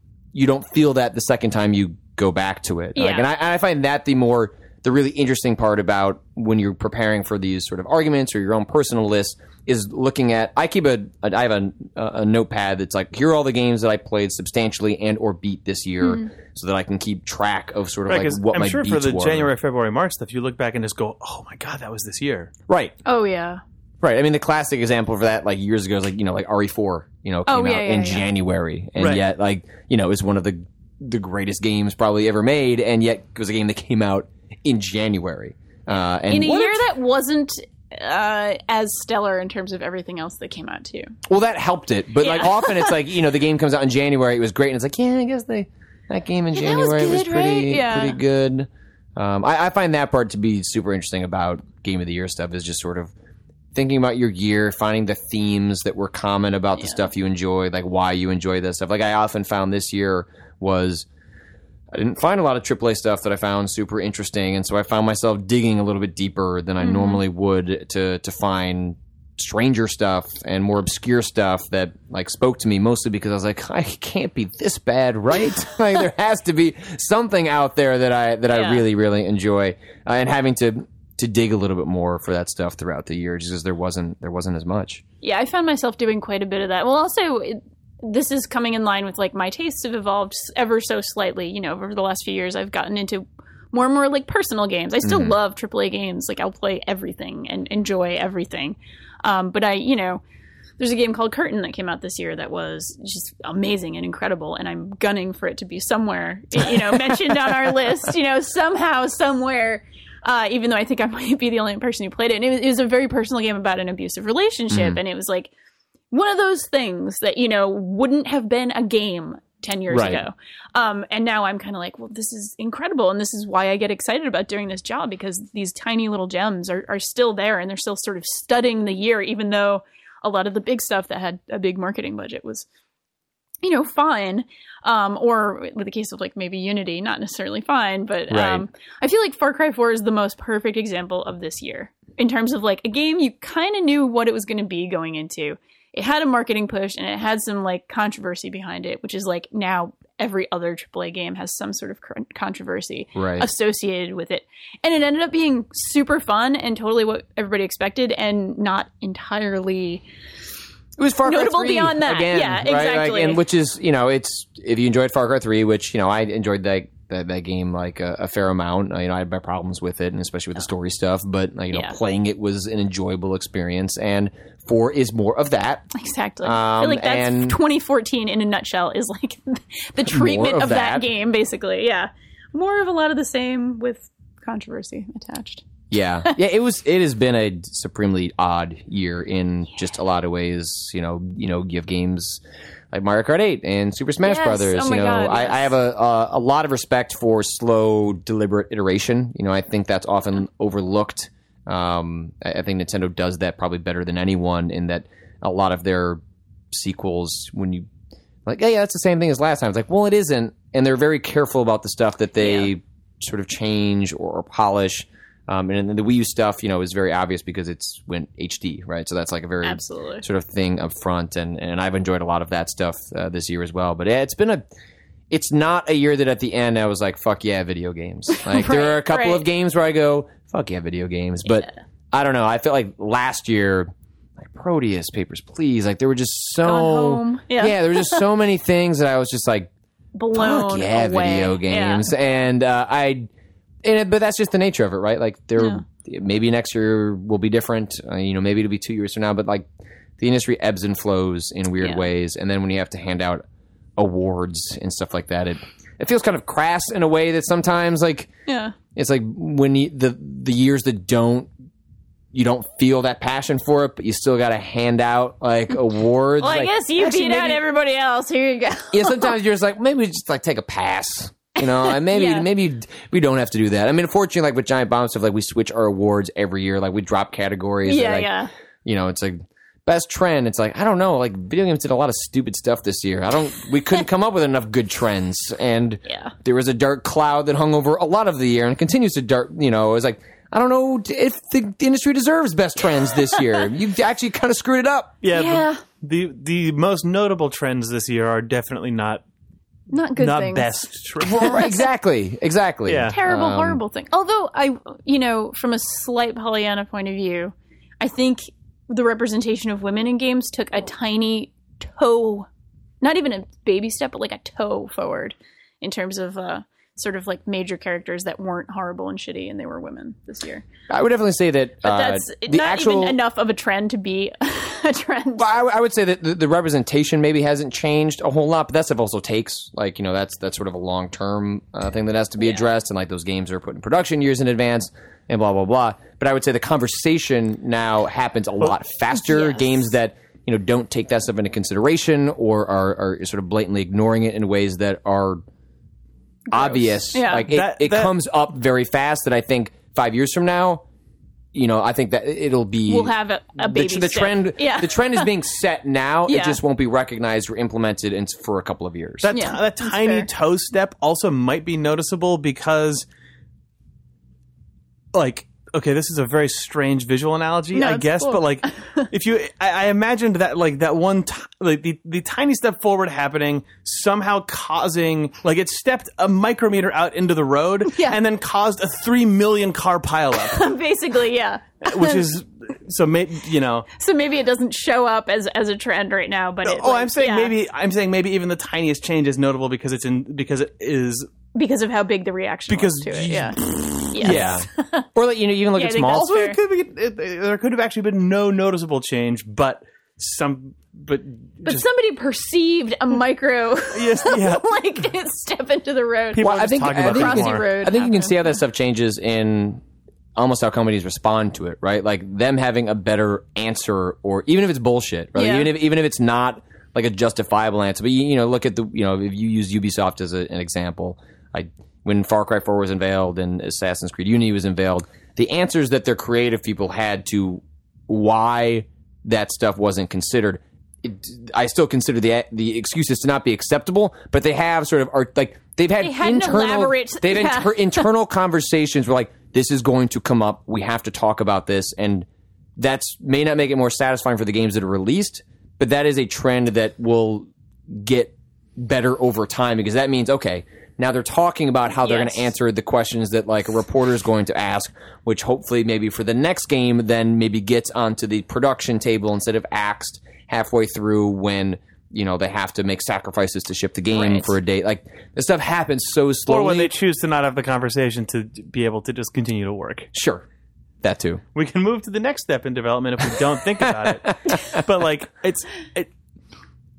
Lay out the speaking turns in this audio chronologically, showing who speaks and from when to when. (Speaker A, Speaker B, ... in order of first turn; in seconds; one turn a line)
Speaker A: 0.3-19.5
Speaker B: 2.9-3.3
Speaker B: 16.0-16.3
Speaker C: 18.1-22.7
Speaker B: 23.0-23.6
Speaker A: 24.0-36.9
Speaker B: 27.5-28.3
Speaker C: 29.0-29.2
Speaker B: 36.3-41.1
Speaker A: 41.3-53.1
Speaker B: 42.2-43.0
Speaker B: 46.5-48.2
Speaker A: 53.7-61.1
Speaker A: 61.9-85.0
Speaker B: 66.8-67.2
Speaker B: 78.5-78.8
Speaker B: 85.2-100.2
Speaker A: 95.0-95.3
Speaker B: 100.8-115.5
Speaker A: 114.7-115.0
Speaker B: 116.1-132.7
Speaker A: 119.9-120.2
Speaker B: 133.6-160.0
Speaker A: 138.3-138.7
Speaker A: 153.1-153.5
Speaker A: 161.0-175.8
Speaker B: 161.2-163.4
Speaker B: 171.7-172.0
Speaker B: 175.9-185.6
Speaker A: 176.4-177.6
Speaker A: 180.1-181.1
Speaker A: 185.9-207.9
Speaker B: 194.2-195.7
Speaker A: 208.4-224.6
Speaker B: 212.4-212.7
Speaker B: 219.6-220.2
Speaker A: 225.3-239.7
Speaker B: 228.4-229.4
Speaker B: 236.6-238.2
Speaker B: 240.1-242.1
Speaker A: 240.3-243.3
Speaker A: 243.8-249.7
Speaker B: 245.6-245.8
Speaker A: 250.2-253.4
Speaker B: 251.8-252.1
Speaker A: 254.0-258.3
Speaker B: 258.5-258.8
Speaker A: 258.9-261.5
Speaker A: 262.3-267.6
Speaker B: 266.4-269.3
Speaker A: 268.9-278.3
Speaker B: 271.6-272.5
Speaker B: 277.8-278.5
Speaker A: 278.8-295.2
Speaker B: 286.1-286.3
Speaker C: 295.2-299.2
Speaker B: 295.3-295.8
Speaker B: 299.9-300.8
Speaker C: 300.2-301.7
Speaker A: 301.2-303.8
Speaker B: 301.4-301.8
Speaker C: 302.9-303.1
Speaker B: 303.1-312.5
Speaker B: 313.0-320.6
Speaker A: 320.9-323.2
Speaker B: 321.8-325.5
Speaker A: 325.4-345.4
Speaker B: 339.1-339.8
Speaker B: 346.5-347.5
Speaker A: 346.5-350.8
Speaker C: 347.5-348.1
Speaker A: 351.5-359.3
Speaker B: 352.9-355.3
Speaker B: 356.3-356.6
Speaker C: 359.2-363.1
Speaker B: 359.3-360.3
Speaker C: 365.1-380.7
Speaker B: 367.7-369.1
Speaker B: 377.9-378.2
Speaker B: 380.5-382.2
Speaker C: 381.8-383.9
Speaker B: 383.9-387.5
Speaker C: 386.6-391.3
Speaker B: 391.5-393.6
Speaker C: 392.7-394.6
Speaker B: 394.1-395.1
Speaker A: 394.2-396.3
Speaker B: 395.7-396.6
Speaker C: 396.0-401.8
Speaker B: 401.6-408.3
Speaker C: 403.9-404.6
Speaker C: 406.3-407.7
Speaker A: 406.4-409.8
Speaker A: 410.4-466.9
Speaker B: 415.3-415.7
Speaker B: 436.0-438.1
Speaker B: 452.0-452.5
Speaker B: 464.1-464.6
Speaker C: 466.5-470.1
Speaker A: 470.1-470.4
Speaker A: 471.0-471.4
Speaker C: 471.5-476.1
Speaker A: 474.0-474.8